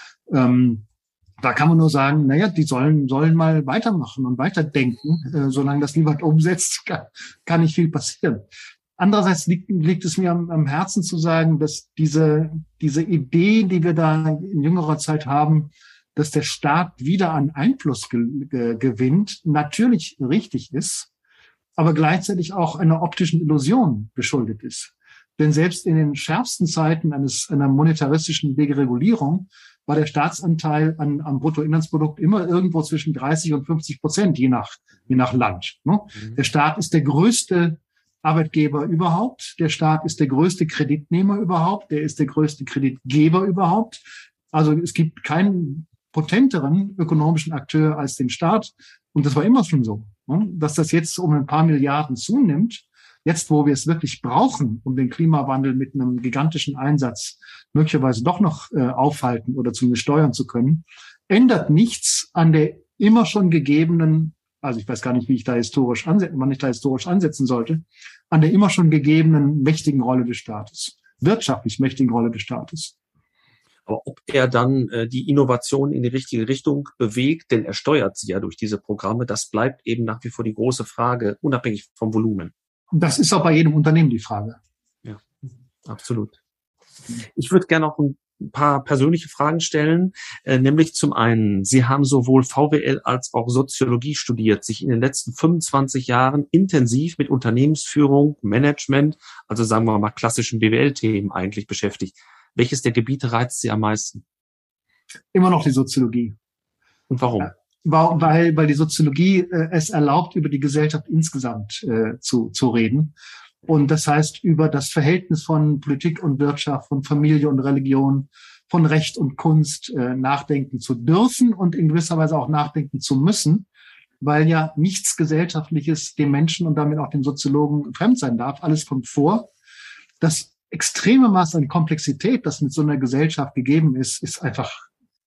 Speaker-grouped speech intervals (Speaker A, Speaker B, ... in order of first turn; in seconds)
Speaker A: 0.3-0.8, 1.4-8.4, 9.0-21.1, 21.8-72.9, 82.9-84.6, 105.3-106.3, 107.4-123.7, 124.2-129.5, 130.2-134.9
Speaker B: 73.9-82.5, 85.8-86.4, 87.4-104.2, 107.1-107.5